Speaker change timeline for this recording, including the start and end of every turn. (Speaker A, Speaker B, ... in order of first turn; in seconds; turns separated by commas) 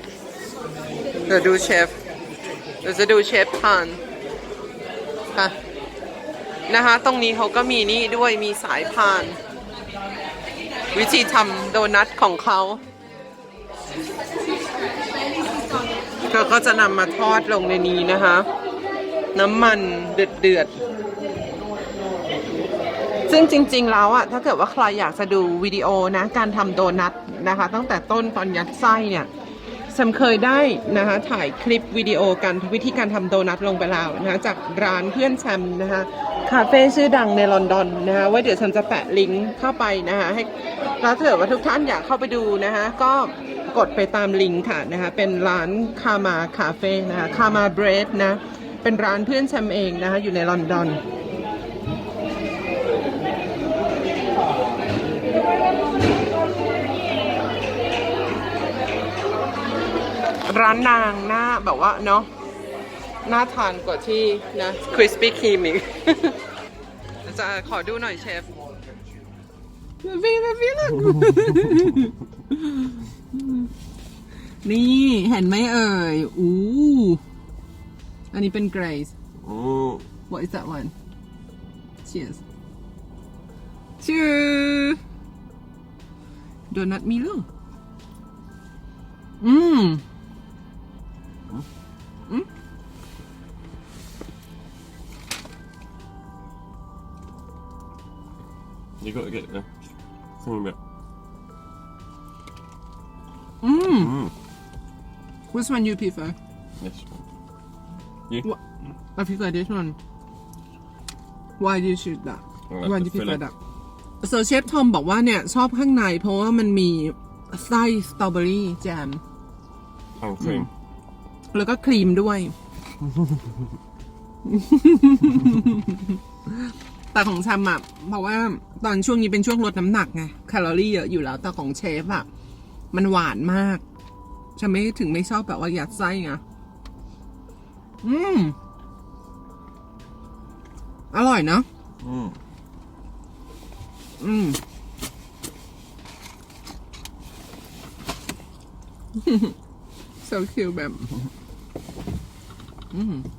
Speaker A: 1.2-2.0, Speaker A: 2.8-4.0, Speaker A: 6.7-9.4, Speaker A: 10.9-12.8, Speaker A: 16.3-18.5, Speaker A: 19.3-20.8, Speaker A: 23.3-29.3, Speaker A: 29.9-51.0, Speaker A: 60.5-62.3, Speaker A: 63.2-66.4, Speaker A: 67.2-68.5, Speaker A: 70.0-73.7, Speaker A: 74.6-77.2, Speaker A: 78.3-79.1, Speaker B: 79.4-80.1, Speaker A: 80.3-80.9, Speaker A: 82.0-82.4, Speaker A: 84.0-85.0, Speaker A: 86.7-87.5, Speaker A: 89.4-90.0, Speaker B: 99.0-99.7, Speaker B: 100.4-100.8, Speaker A: 103.6-104.1, Speaker B: 103.9-104.3, Speaker A: 105.5-106.4, Speaker B: 106.8-107.2, Speaker A: 109.1-110.0, Speaker A: 111.6-113.5, Speaker B: 112.7-113.4, Speaker A: 114.2-119.2, Speaker B: 120.2-120.7, Speaker A: 120.4-120.7, Speaker A: 121.5-122.5, Speaker A: 124.5-126.6, Speaker A: 127.1-132.3, Speaker A: 132.9-133.8, Speaker A: 134.6-136.4, Speaker A: 138.0-138.6, Speaker A: 141.1-141.7, Speaker B: 142.0-142.4, Speaker A: 144.2-144.6, Speaker A: 149.2-149.6, Speaker A: 150.2-151.3, Speaker A: 152.9-153.3